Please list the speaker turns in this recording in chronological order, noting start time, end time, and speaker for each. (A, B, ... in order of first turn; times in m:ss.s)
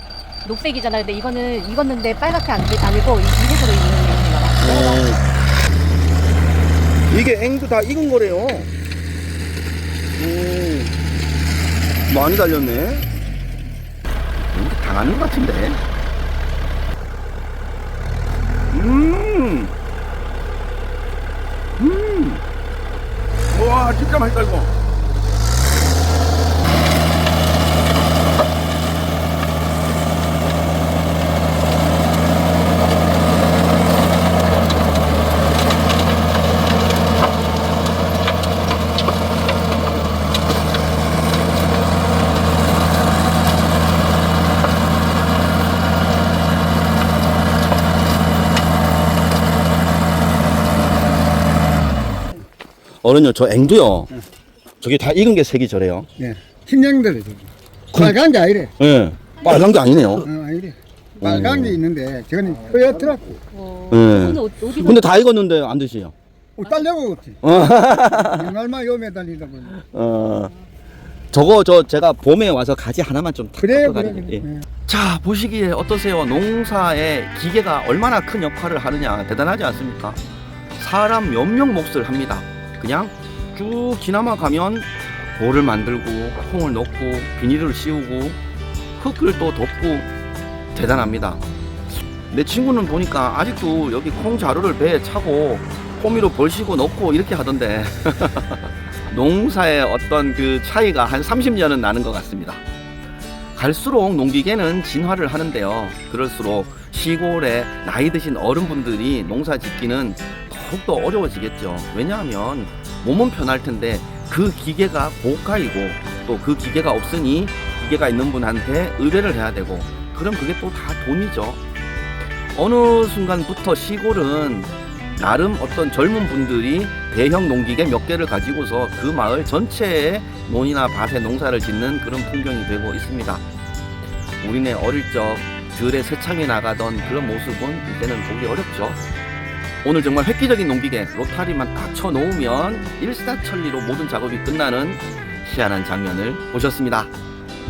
0:00.4-0:05.0 A
0:04.6-0:05.2 B
0:07.1-0:08.7 B
0:10.2-0:10.9 B
0:12.1-0:13.0 B
0:14.4-0:15.8 B
0:18.7-0:19.7 B
0:21.8-0:22.4 B
0:23.5-0:24.7 B
0:53.0-0:54.1 B
0:54.8-0:56.1 B
0:56.2-0:58.7 C
0:57.9-0:58.2 B
0:58.8-1:00.3 B
1:00.2-1:03.4 C
1:01.2-1:01.8 B
1:03.5-1:05.1 A
1:03.9-1:06.1 B
1:06.6-1:07.4 C
1:07.4-1:08.5 B
1:08.2-1:09.7 C
1:09.7-1:10.5 B
1:11.3-1:20.2 B
1:13.6-1:14.6 C
1:20.8-1:28.4 B
1:29.0-1:30.1 B
1:30.7-1:31.4 B
1:32.3-1:42.6 B
1:43.5-2:01.6 B
2:02.5-2:13.4 B
2:14.4-2:19.0 B
2:19.8-2:27.1 B